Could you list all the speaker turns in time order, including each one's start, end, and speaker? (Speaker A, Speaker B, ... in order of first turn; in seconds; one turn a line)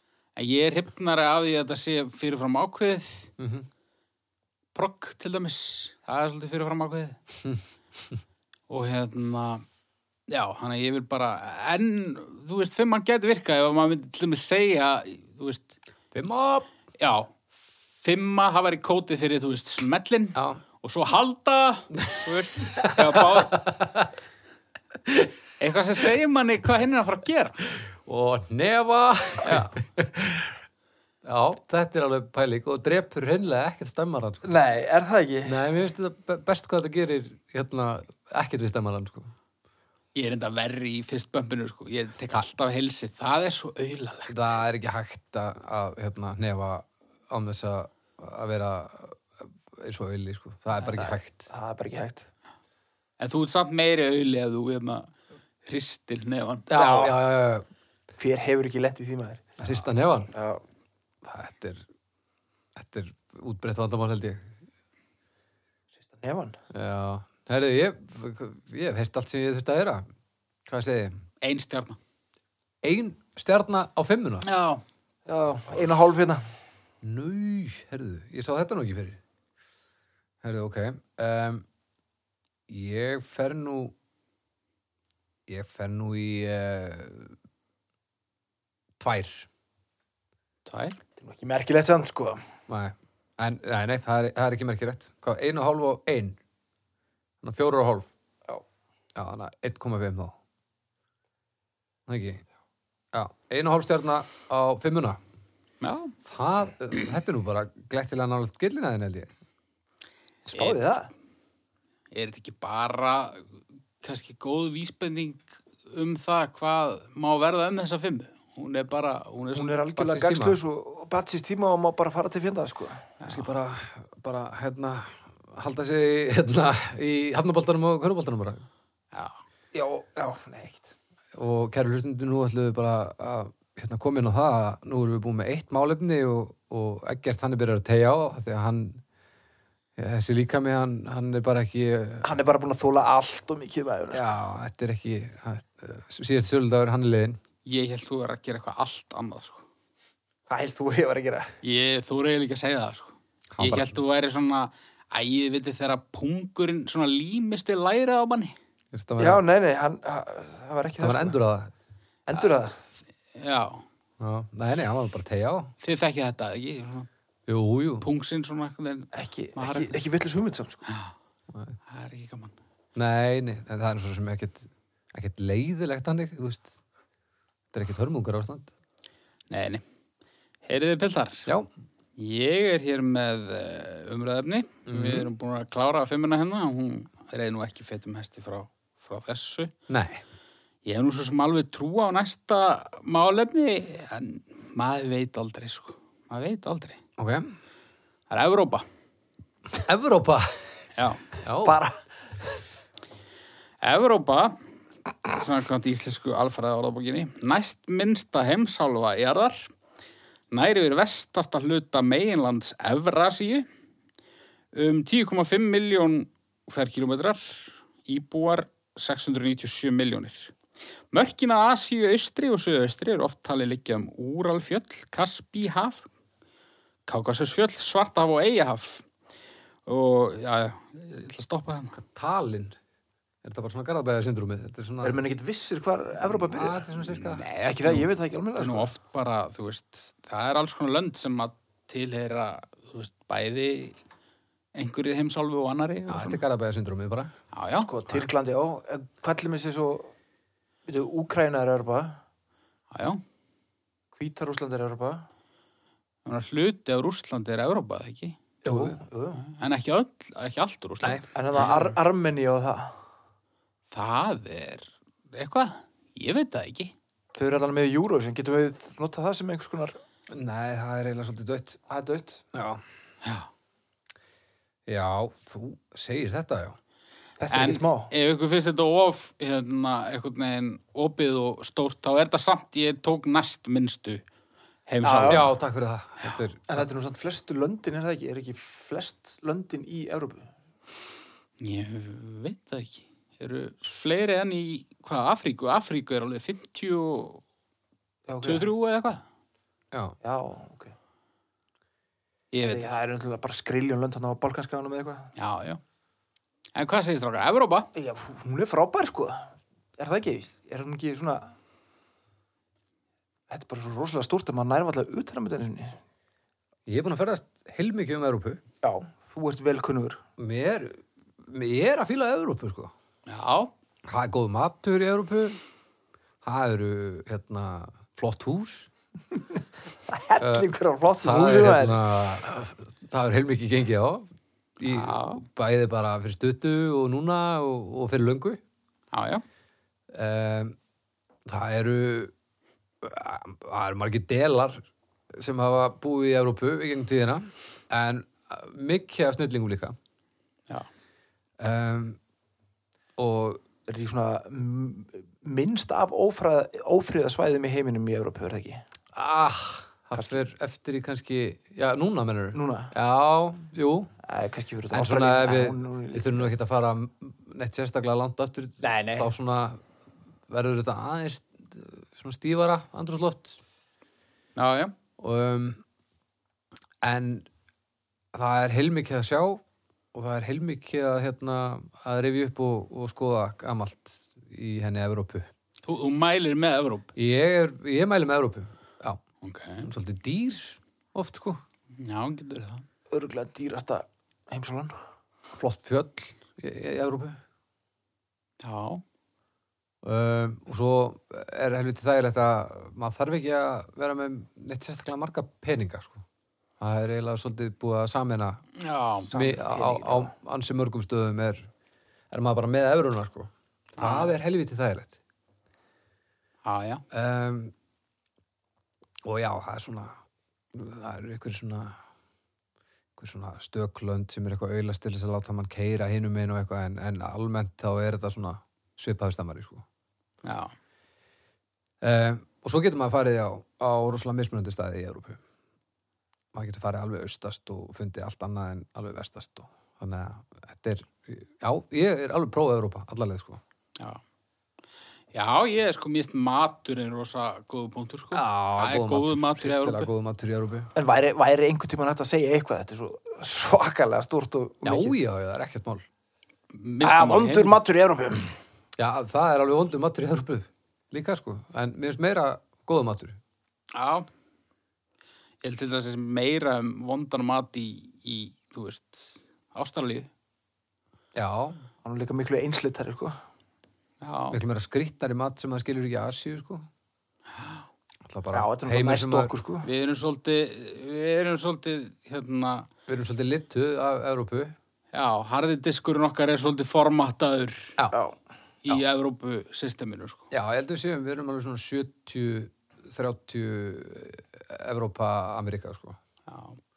Speaker A: 0.4-3.3
Speaker B: 3.4-3.7
Speaker A: 4.8-7.2
Speaker B: 7.4-8.2
Speaker A: 8.7-9.7
Speaker A: 10.3-15.8
Speaker B: 16.1-16.7
Speaker A: 17.0-17.4
Speaker A: 18.0-23.7
Speaker B: 20.4-20.6
Speaker B: 22.7-24.1
Speaker B: 25.1-25.3
Speaker A: 25.6-27.6
Speaker B: 28.0-30.6
Speaker A: 29.4-29.7
Speaker B: 31.2-34.5
Speaker C: 34.4-35.6
Speaker B: 35.5-39.3
Speaker A: 40.1-44.4
Speaker B: 44.3-51.5
Speaker C: 50.9-52.3
Speaker A: 53.2-55.1
Speaker A: 55.6-56.7
Speaker B: 56.7-57.6
Speaker C: 56.7-57.2
Speaker C: 58.2-59.7
Speaker B: 59.6-60.3
Speaker C: 60.3-60.6
Speaker B: 61.2-61.9
Speaker B: 62.8-64.5
Speaker C: 66.1-66.6
Speaker B: 66.7-70.0
Speaker B: 70.7-71.2
Speaker A: 71.4-72.0
Speaker B: 72.8-74.5
Speaker A: 74.4-74.8
Speaker C: 75.3-76.4
Speaker B: 77.0-79.2
Speaker B: 80.4-81.7
Speaker B: 82.7-83.9
Speaker B: 85.5-87.3
Speaker B: 89.0-89.5
Speaker A: 90.7-91.0
Speaker C: 91.2-92.4
Speaker B: 92.7-96.4
Speaker B: 97.4-98.1
Speaker B: 99.2-100.3
Speaker B: 102.1-102.4
Speaker B: 103.1-105.2
Speaker A: 105.8-106.1
Speaker B: 106.2-109.3
Speaker C: 110.5-111.1
Speaker A: 110.5-110.9
Speaker A: 112.1-119.8
Speaker C: 119.5-123.1
Speaker B: 120.0-120.6
Speaker A: 123.2-123.5
Speaker B: 123.2-128.7
Speaker A: 129.1-129.4
Speaker C: 129.7-130.9
Speaker B: 131.3-139.0
Speaker B: 140.0-142.3
Speaker C: 142.2-144.3
Speaker B: 144.1-147.4
Speaker A: 147.7-149.6
Speaker C: 150.5-151.5
Speaker A: 151.6-158.6
Speaker B: 153.5-154.0
Speaker B: 158.9-159.4
Speaker C: 159.2-161.4
Speaker B: 161.0-161.7
Speaker C: 162.3-162.8
Speaker A: 163.3-163.8
Speaker B: 164.2-165.7
Speaker A: 165.8-167.1
Speaker B: 167.5-168.1
Speaker A: 168.0-170.0
Speaker C: 169.1-170.8
Speaker A: 170.9-171.2
Speaker B: 171.5-171.8
Speaker A: 171.9-172.6
Speaker B: 172.9-176.8
Speaker B: 177.7-178.7
Speaker A: 179.5-179.8
Speaker A: 180.7-181.5
Speaker A: 182.2-189.7
Speaker B: 184.9-185.3
Speaker B: 189.9-190.2
Speaker A: 190.8-197.0
Speaker B: 197.2-197.5
Speaker A: 198.3-198.8
Speaker B: 199.8-200.8
Speaker A: 200.9-201.3
Speaker B: 201.4-201.8
Speaker C: 201.6-202.0
Speaker A: 203.8-204.6
Speaker A: 205.3-209.7
Speaker A: 210.5-213.7
Speaker A: 214.7-220.6
Speaker A: 221.1-226.1
Speaker A: 227.1-229.1
Speaker A: 229.9-232.0
Speaker B: 231.9-232.8
Speaker B: 233.4-235.2
Speaker C: 235.0-236.9
Speaker B: 236.3-237.4
Speaker A: 237.2-244.0
Speaker C: 237.6-238.9
Speaker A: 244.8-246.4
Speaker B: 246.1-247.3
Speaker A: 247.5-248.3
Speaker C: 247.8-250.1
Speaker C: 250.9-252.2
Speaker A: 252.9-253.2
Speaker C: 254.2-255.3
Speaker A: 256.2-258.4
Speaker B: 258.6-259.0
Speaker C: 258.7-259.4
Speaker A: 259.4-261.8
Speaker B: 261.0-261.8
Speaker C: 261.3-263.0
Speaker A: 263.9-266.9
Speaker C: 267.4-270.0
Speaker B: 270.3-271.8
Speaker C: 271.9-272.4
Speaker B: 272.5-272.8
Speaker A: 273.2-273.5
Speaker B: 274.9-276.8
Speaker C: 277.4-278.1
Speaker A: 277.5-284.2
Speaker A: 284.9-285.5
Speaker C: 285.0-285.5
Speaker B: 285.3-286.9
Speaker C: 286.7-290.5
Speaker A: 291.6-297.4
Speaker C: 298.3-298.7
Speaker A: 298.4-299.2
Speaker C: 300.2-300.9
Speaker A: 302.5-302.9
Speaker C: 302.7-305.3
Speaker A: 305.4-305.8
Speaker A: 306.8-307.9
Speaker C: 307.9-311.6
Speaker C: 313.5-316.0
Speaker B: 316.9-318.6
Speaker C: 318.8-320.2
Speaker B: 320.4-322.9
Speaker A: 323.3-323.7
Speaker B: 324.1-325.6
Speaker B: 326.4-328.9
Speaker C: 330.1-332.1
Speaker B: 330.4-334.3
Speaker B: 334.8-338.6
Speaker A: 334.9-335.4
Speaker A: 339.1-339.4
Speaker B: 340.1-340.8
Speaker B: 341.5-342.3
Speaker B: 343.0-349.9
Speaker B: 351.6-352.2
Speaker B: 353.2-353.6
Speaker C: 353.9-358.8
Speaker B: 359.1-364.1
Speaker C: 362.5-362.9
Speaker C: 364.2-366.5
Speaker B: 364.9-369.8
Speaker C: 368.8-369.3
Speaker B: 370.5-373.6
Speaker A: 374.6-374.9
Speaker B: 375.2-375.8
Speaker B: 377.0-377.5
Speaker B: 378.3-379.6
Speaker B: 380.1-385.5
Speaker A: 385.9-387.1
Speaker B: 387.2-389.2
Speaker A: 389.4-389.9
Speaker B: 389.8-391.6
Speaker A: 392.0-392.9
Speaker C: 393.1-395.0
Speaker B: 395.6-397.4
Speaker A: 398.6-399.0
Speaker B: 400.0-406.2
Speaker B: 406.8-408.6
Speaker A: 408.8-409.3
Speaker C: 409.3-410.3
Speaker B: 409.3-411.7
Speaker B: 412.3-415.2
Speaker A: 414.0-414.4
Speaker A: 416.6-417.0
Speaker B: 417.1-417.7
Speaker B: 419.2-420.2
Speaker B: 420.7-422.0
Speaker B: 423.2-429.9
Speaker A: 430.4-430.8
Speaker B: 432.0-435.4
Speaker B: 436.5-443.6
Speaker A: 445.3-450.1
Speaker B: 448.3-450.9
Speaker C: 450.9-455.2
Speaker B: 454.8-456.1
Speaker A: 456.7-457.8
Speaker C: 457.0-458.6
Speaker B: 459.0-463.4
Speaker A: 463.9-464.3
Speaker A: 465.6-470.3
Speaker B: 471.4-471.8
Speaker C: 472.0-473.4
Speaker A: 474.2-474.6
Speaker B: 474.5-476.9
Speaker A: 477.6-477.9
Speaker B: 478.2-479.5
Speaker C: 478.5-479.9
Speaker A: 479.8-482.9
Speaker B: 483.1-484.8
Speaker A: 485.1-487.9
Speaker A: 488.9-490.5
Speaker B: 490.5-496.2
Speaker A: 496.5-496.8